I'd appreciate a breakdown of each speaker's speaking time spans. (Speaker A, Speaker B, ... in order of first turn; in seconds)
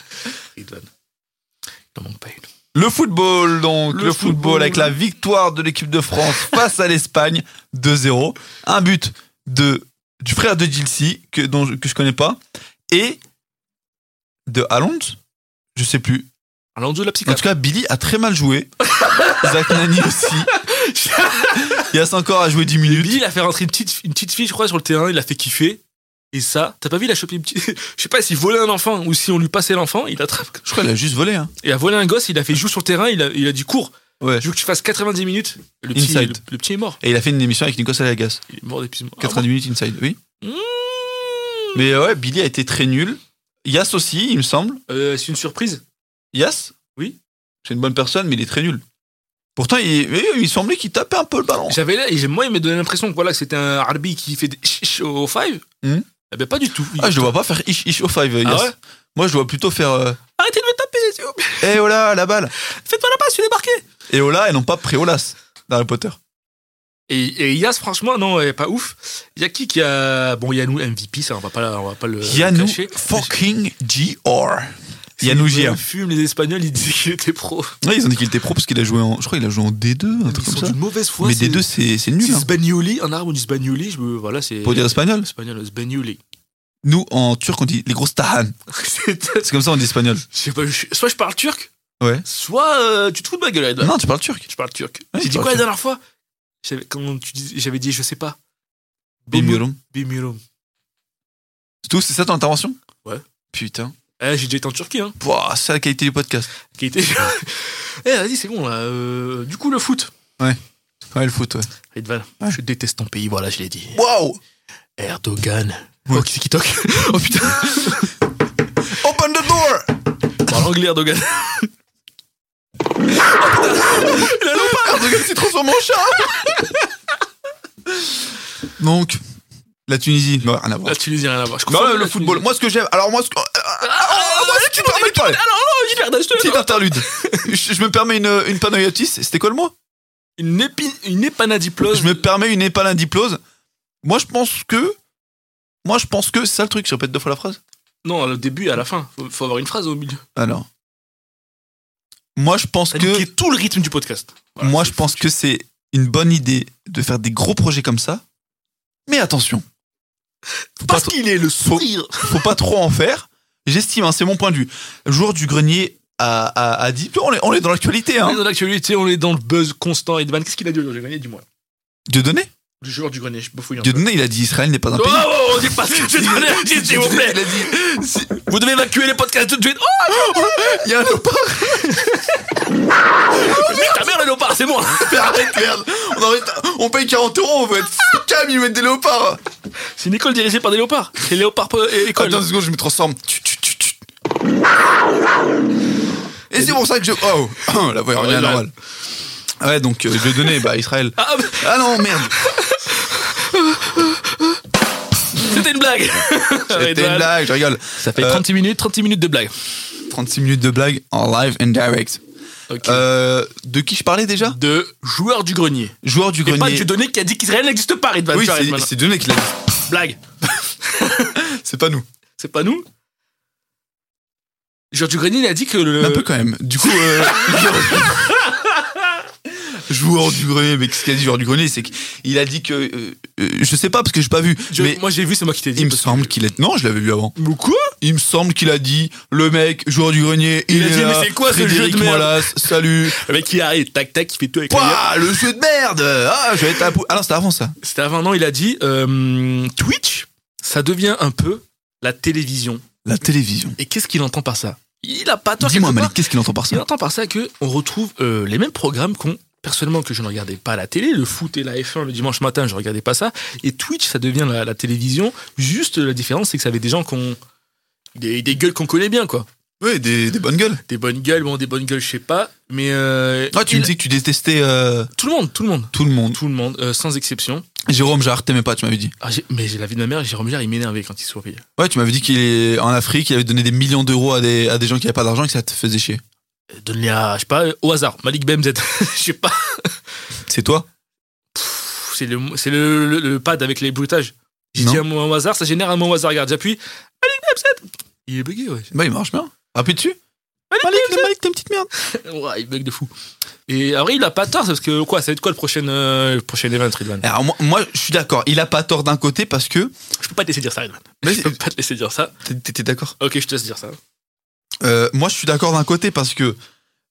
Speaker A: 0.6-0.9, 1.9-2.5, 3.9-5.0, 16.8-17.5, 18.9-21.9, 22.8-30.7, 31.6-37.0, 38.5-39.5, 40.4-41.8, 44.9-45.8, 51.7-55.6, 56.3-57.3, 58.4-58.8, 60.4-61.8, 62.6-63.8, 67.1-73.3, 75.2-77.8, 80.3-81.7, 82.2-86.2, 88.7-89.5, 90.3-91.7, 92.2-94.0, 94.5-96.0, 96.6-98.4, 99.3-100.4, 104.2-105.2, 106.8-110.1, 111.9-114.0, 115.0-118.1, 120.4-121.7, 123.1-126.9, 130.8-132.4, 133.8-137.5, 140.4-142.2, 148.0-150.2, 152.9-155.3, 160.8-162.5, 168.2-171.4, 172.8-174.1, 174.9-177.7, 178.3-180.8, 181.7-182.5, 183.3-185.6, 190.0-192.5, 198.1-198.7, 201.2-204.6, 205.3-207.4, 207.9-209.6, 212.7-213.1, 214.4-218.9, 219.9-221.4, 222.4-222.8, 224.9-226.3, 226.8-229.1, 234.7-236.4, 237.4-237.9, 240.7-245.4, 247.8-252.8, 253.8-267.4, 268.2-269.5, 270.9-273.9, 275.1-277.7, 279.2-281.6, 286.7-290.0, 291.6-298.9, 300.7-301.3, 302.0-303.1, 303.7-307.3, 310.2-312.3, 313.2-314.0
Speaker B: 2.7-13.2, 14.5-15.2, 15.8-16.3, 17.3-18.7, 19.3-20.5, 21.7-23.2, 30.6-31.5, 34.2-34.5, 35.9-36.4, 37.0-38.4, 39.2-40.2, 41.8-44.8, 46.3-46.8, 47.6-48.8, 49.6-51.8, 57.0-60.2, 61.6-62.5, 64.1-66.2, 72.2-75.8, 77.8-82.5, 84.6-85.3, 86.8-88.5, 89.4-90.2, 92.0-92.2, 93.8-94.5, 95.1-95.6, 99.3-99.8, 101.8-102.8, 103.5-104.0, 105.2-106.5, 111.1-111.7, 113.9-114.4, 117.1-118.0, 118.9-119.9, 124.0-126.5, 128.8-129.2, 129.9-131.0, 131.7-135.4, 136.4-139.7, 141.9-143.4, 144.0-145.0, 145.8-147.6, 150.4-150.7, 152.4-153.3, 154.6-158.2, 159.1-159.7, 160.8-168.4, 172.1-172.5, 173.8-178.4, 180.1-182.0, 183.4-183.9, 185.0-189.4, 192.1-194.0, 196.5-198.7, 199.6-202.4, 206.7-208.4, 210.1-212.2, 212.8-214.6, 216.0-216.9, 218.3-219.7, 221.4-222.1, 226.0-228.4, 229.8-235.0, 235.8-237.3, 238.0-243.2, 244.7-247.8, 253.1-253.8, 255.6-256.9, 269.8-270.8, 273.5-275.1, 275.9-276.4, 277.9-279.1, 281.8-286.2, 290.5-290.9, 294.8-295.0, 298.9-300.2, 300.8-301.9, 307.2-309.9, 311.2-311.6, 312.4-313.1, 314.8-316.6